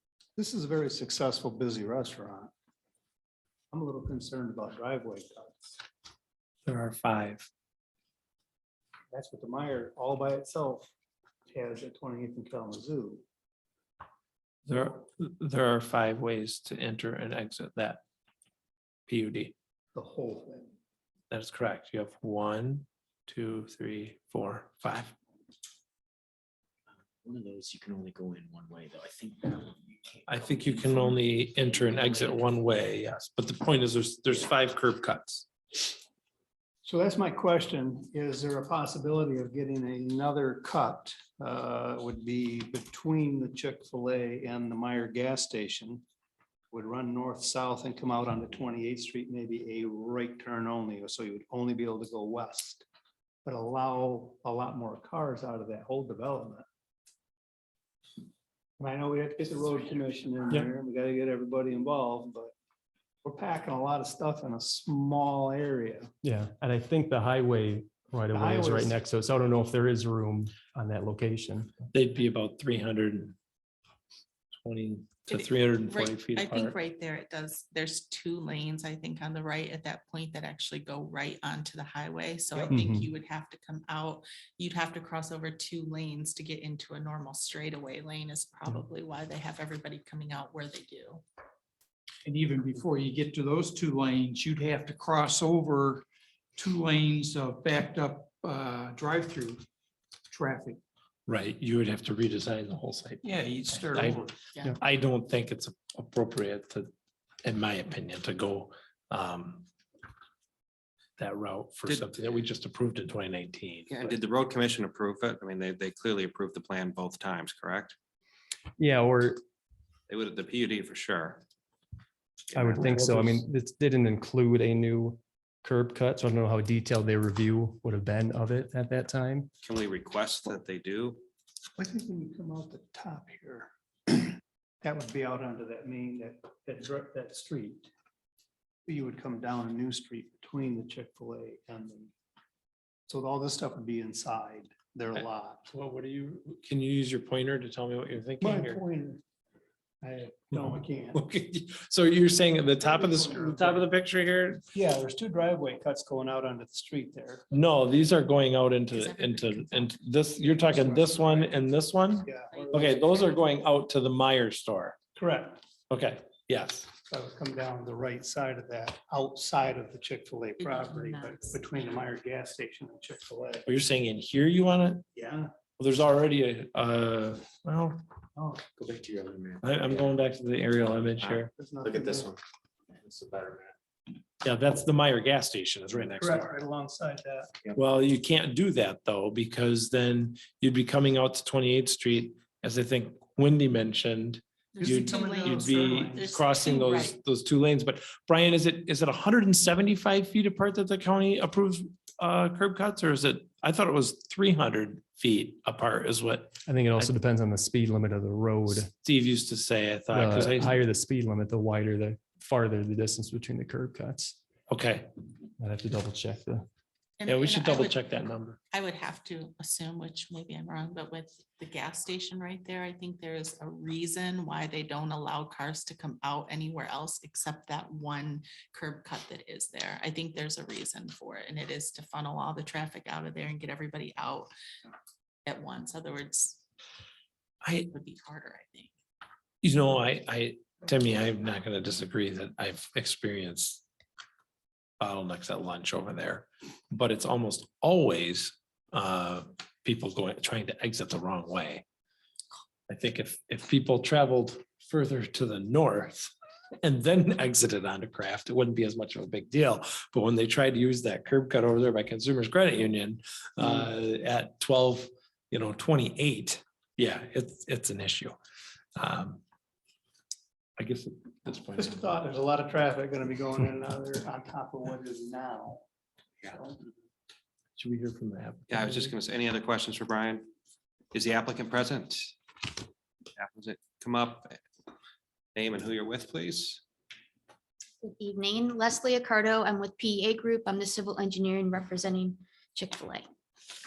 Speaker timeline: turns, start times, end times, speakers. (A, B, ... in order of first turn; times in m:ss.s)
0:00.4-0:02.5 A
0:03.7-0:05.7 A
0:06.6-0:07.5 B
0:09.1-0:10.9 A
0:11.5-0:13.2 A
0:14.6-0:18.0 B
0:19.1-0:19.5 B
0:19.9-0:20.7 A
0:21.3-0:25.1 B
0:26.9-0:32.6 C
0:30.3-0:35.5 B
0:36.8-0:46.0 A
0:46.7-0:52.8 A
0:53.4-0:56.6 A
0:58.8-1:02.5 A
1:03.2-1:06.1 A
1:06.2-1:11.7 D
1:08.3-1:09.0 A
1:11.9-1:13.4 B
1:14.6-1:16.8 B
1:15.3-1:31.2 E
1:22.7-1:23.1 D
1:32.3-1:34.2 F
1:34.7-1:35.3 F
1:36.6-1:36.9 F
1:41.3-1:46.9 B
1:43.2-1:44.3 F
1:47.4-1:49.6 B
1:51.2-1:54.1 B
1:53.9-1:57.9 G
1:58.8-1:59.4 D
2:00.1-2:01.4 G
2:02.5-2:03.3 G
2:02.5-2:09.5 D
2:09.6-2:11.2 G
2:11.8-2:17.9 A
2:18.8-2:22.1 A
2:23.1-2:25.6 A
2:25.7-2:28.8 B
2:28.4-2:29.2 A
2:30.0-2:31.2 A
2:30.5-2:34.6 B
2:32.8-2:33.8 A
2:34.7-2:37.4 A
2:37.5-2:45.0 B
2:38.9-2:39.9 E
2:40.4-2:41.7 A
2:42.2-2:42.6 A
2:42.3-2:43.4 E
2:45.2-2:45.6 A
2:45.9-2:46.9 B
2:47.1-2:53.7 A
2:50.6-2:52.0 E
2:53.7-2:55.0 B
2:55.1-2:55.5 A
2:55.8-2:58.0 B
2:58.4-2:58.6 A
2:58.7-3:00.2 C
2:59.6-3:01.5 B
3:01.2-3:02.4 C
3:01.6-3:02.3 A
3:02.9-3:03.7 C
3:04.4-3:06.5 B
3:06.2-3:07.5 A
3:07.7-3:27.1 B
3:14.7-3:17.2 E
3:14.8-3:16.2 A
3:26.6-3:28.9 D
3:29.0-3:30.8 B
3:30.1-3:34.4 D
3:34.7-3:35.1 B
3:35.6-3:36.7 D
3:37.2-3:38.0 E
3:37.2-3:38.6 B
3:38.7-3:54.5 E
3:55.4-3:56.6 E
3:57.6-3:57.9 B
3:57.9-3:58.9 E
3:59.6-4:03.8 B
4:05.0-4:11.8 B
4:12.9-4:28.4 B
4:29.0-4:29.4 B
4:30.8-4:32.1 B
4:31.7-4:35.8 A
4:36.4-4:36.8 A
4:37.8-4:39.1 B
4:38.7-4:40.5 G
4:41.1-4:42.3 G
4:43.4-4:44.6 G
4:45.5-4:46.8 G
4:48.0-4:53.3 H